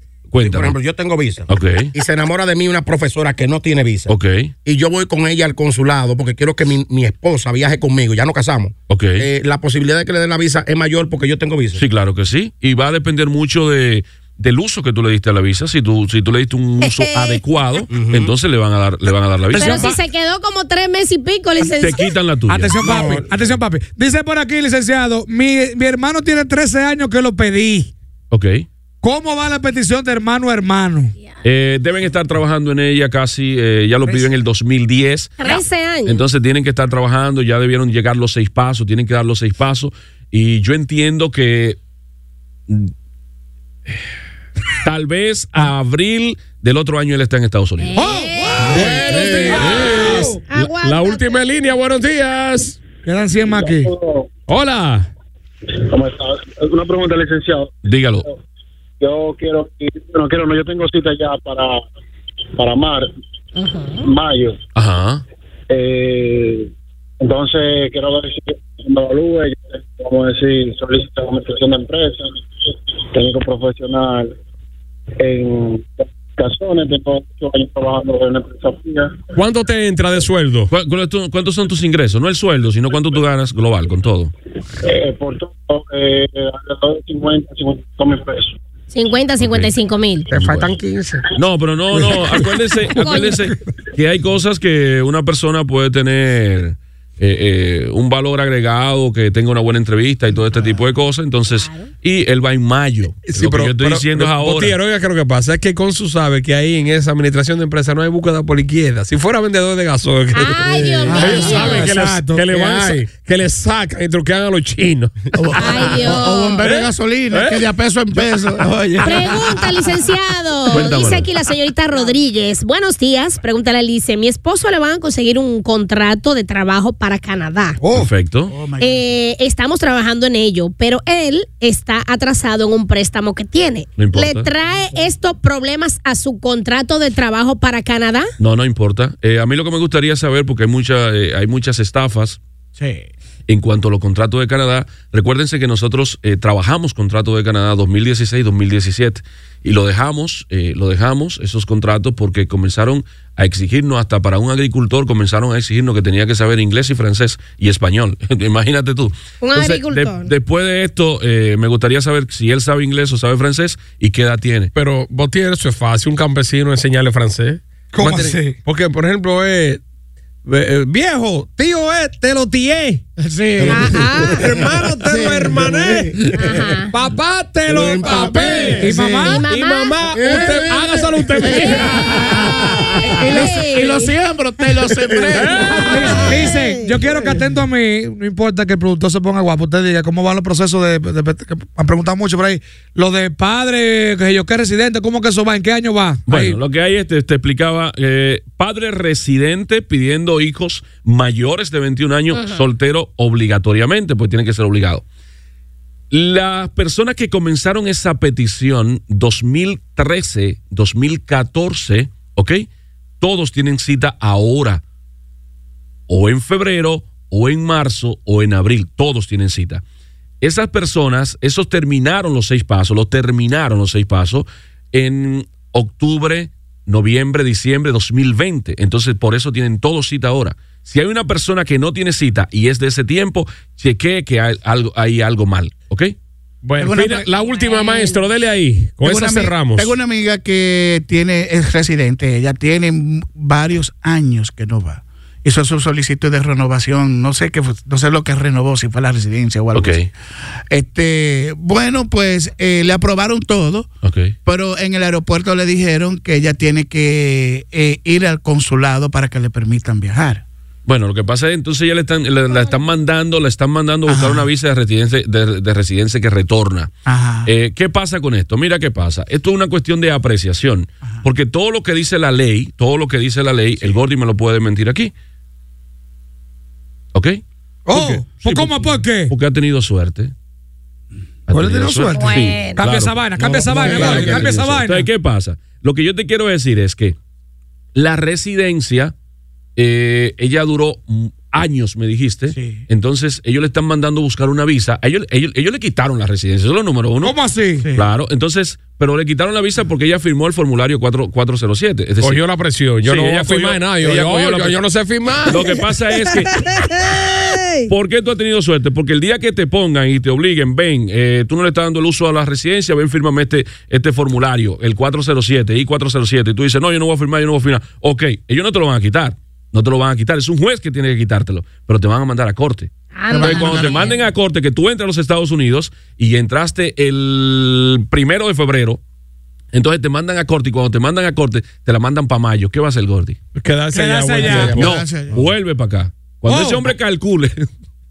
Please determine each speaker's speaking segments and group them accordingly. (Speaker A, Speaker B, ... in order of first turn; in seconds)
Speaker A: 0.3-0.8, 1.5-1.9, 4.1-4.5, 8.9-9.3, 11.8-19.8, 21.7-22.8, 28.3-28.6, 31.4-41.8, 44.8-47.9, 57.8-58.2, 64.8-65.2, 80.7-84.3, 89.4-89.7, 90.3-90.8, 91.3-104.8, 120.7-121.3, 127.9-128.5, 134.0-134.5, 138.4-142.4, 143.5-164.7, 196.3-205.0, 206.1-212.7, 213.2-214.8, 216.1-219.8, 220.4-236.1, 249.7-250.1, 254.0-254.3, 260.9-266.9, 267.4-275.1, 277.1-280.3, 281.5-287.1, 287.9-289.1, 289.8-297.4, 297.9-302.4, 303.0-304.8, 305.5-307.2, 307.9-329.0, 329.7-333.4, 334.5-337.7
Speaker B: 0.4-11.8, 17.9-18.3, 22.8-23.5, 173.7-174.3, 177.7-178.9, 180.1-181.6, 185.1-185.4, 283.3-284.8, 334.4-334.8
Speaker C: 16.8-17.4, 19.5-22.1, 35.4-36.2, 47.8-49.6, 50.5-51.4, 63.5-64.1, 88.9-90.3, 92.9-93.4, 101.5-101.9, 110.3-111.8, 115.5-116.6, 119.0-127.8, 128.8-138.3, 159.4-160.3, 173.6-174.4, 176.3-176.9, 179.2-180.2, 183.2-184.1, 186.4-187.0, 202.3-202.7, 237.4-238.2, 282.1-282.8, 306.7-307.9, 323.1-324.2
Speaker D: 19.5-19.9, 22.5-27.9, 29.0-31.1, 48.0-50.4, 53.0-53.9, 111.2-112.5, 127.8-128.1, 167.9-168.6, 178.8-179.4, 183.3-183.6, 185.9-196.6, 277.9-279.3, 281.5-285.1, 297.2-297.8, 333.9-334.8, 336.5-336.9
Speaker E: 48.6-52.8, 54.5-55.1, 79.3-80.7, 90.3-91.2, 103.2-117.6, 118.6-119.3, 164.7-169.8, 170.4-173.0, 173.7-176.3, 176.9-182.5, 185.3-186.4, 236.6-239.9, 302.2-305.7, 333.5-335.0
Speaker F: 53.4-54.3, 55.9-58.4, 59.0-61.8, 62.6-63.1, 64.0-64.6, 65.7-72.4, 73.1-74.3, 75.2-79.2, 84.8-88.6
Speaker G: 111.1-111.9, 115.3-120.0, 128.5-129.1, 142.8-143.1, 173.2-176.7, 178.0-179.4, 180.2-186.5, 236.8-237.2, 239.0-250.1, 250.7-253.9, 254.4-260.4, 264.1-264.5, 267.1-267.5, 292.5-292.8, 297.8-298.1, 323.3-324.1, 334.8-335.4